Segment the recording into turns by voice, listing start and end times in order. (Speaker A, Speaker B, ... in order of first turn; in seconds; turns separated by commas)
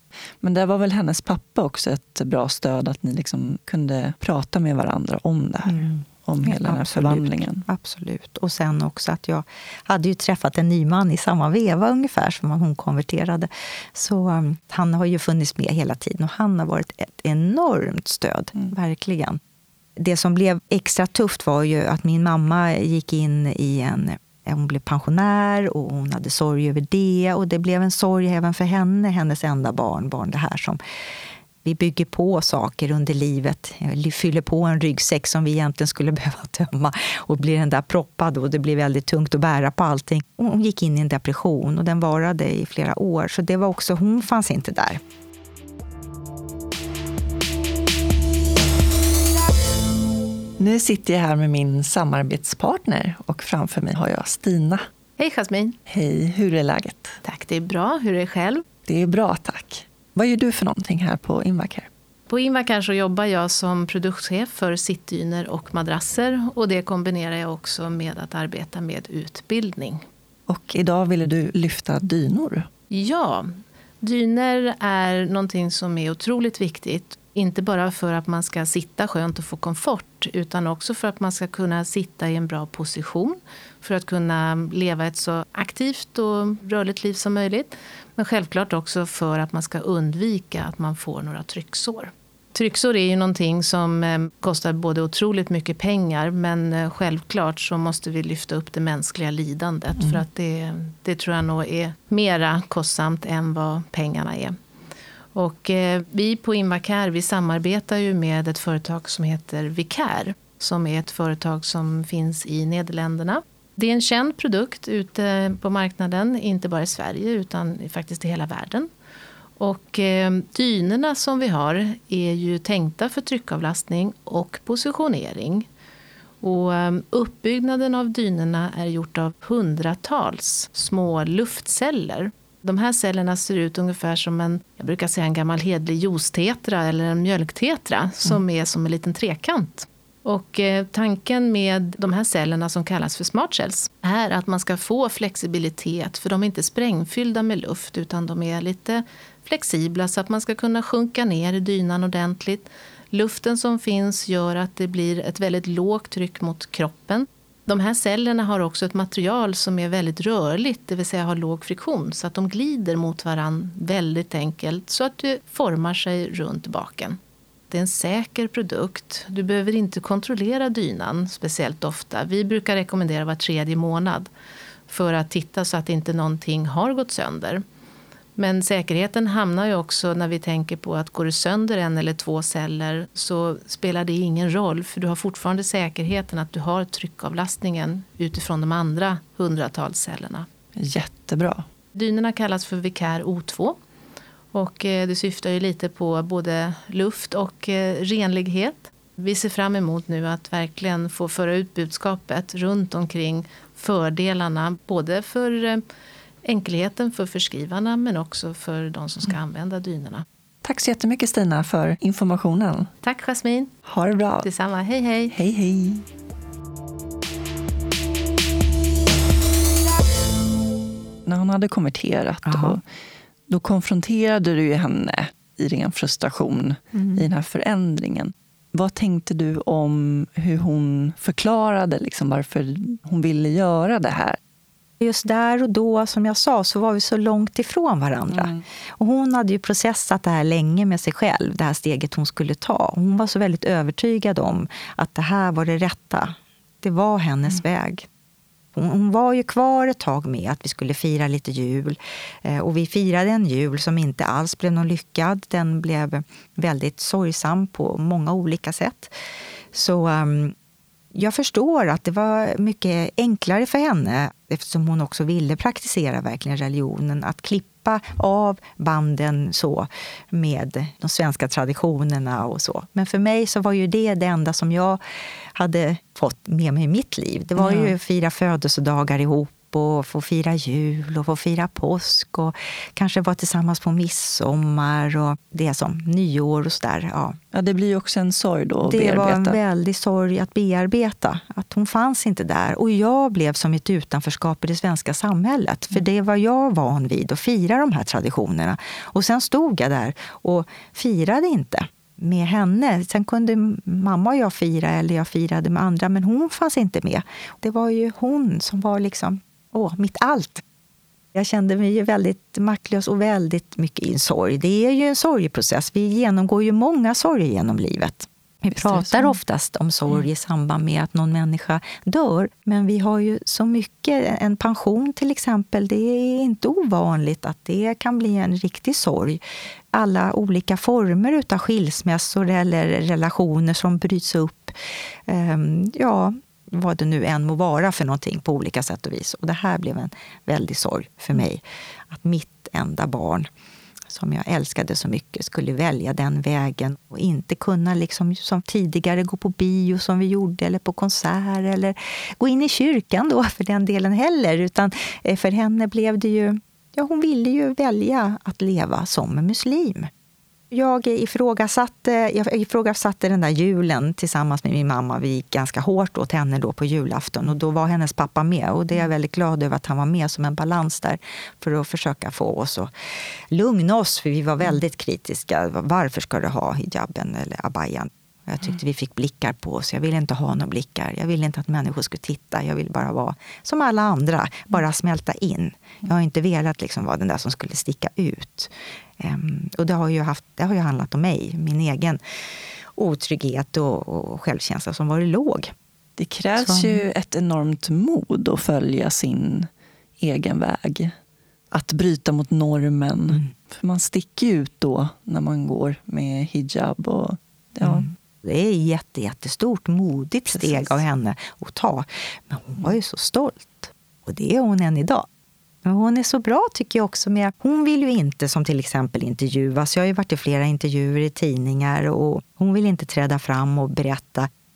Speaker A: 0.4-7.6, Speaker B: 5.7-19.4, Speaker B: 20.0-30.8, Speaker B: 31.6-45.0, Speaker A: 50.6-54.8, Speaker C: 55.2-55.8, Speaker A: 55.9-57.2, Speaker C: 57.2-58.6, Speaker A: 58.9-61.9, Speaker C: 62.3-70.0, Speaker A: 70.5-72.7, Speaker C: 72.9-104.5, Speaker A: 100.0-100.2, Speaker C: 105.3-118.9, Speaker C: 119.6-125.7, Speaker C: 126.4-167.2, Speaker C: 167.7-174.3, Speaker C: 174.9-177.6, Speaker C: 178.3-190.5, Speaker A: 190.7-191.7, Speaker C: 191.9-193.8, Speaker C: 194.5-205.8, Speaker C: 206.4-210.2, Speaker A: 210.6-212.9, Speaker C: 213.0-213.7, Speaker A: 213.8-214.5, Speaker C: 214.4-215.3, Speaker A: 215.3-216.0, Speaker A: 221.2-222.8, Speaker B: 222.4-222.8, Speaker A: 223.5-234.4, Speaker B: 235.0-248.1, Speaker A: 238.3-238.6, Speaker B: 248.7-259.1, Speaker B: 259.7-260.5, Speaker B: 261.1-275.0, Speaker B: 275.6-287.4, Speaker A: 277.6-277.9, Speaker A: 287.5-289.6, Speaker B: 288.8-310.6, Speaker B: 311.3-329.4, Speaker A: 318.7-319.3, Speaker B: 329.9-334.7, Speaker B: 335.3-343.5, Speaker B: 344.1-360.1, Speaker B: 360.7-372.9, Speaker B: 373.5-392.2, Speaker B: 392.9-395.7, Speaker A: 396.2-399.7, Speaker B: 396.6-397.0, Speaker A: 400.2-401.1, Speaker A: 401.7-408.1, Speaker B: 407.8-415.2, Speaker A: 410.5-411.0, Speaker B: 415.8-424.5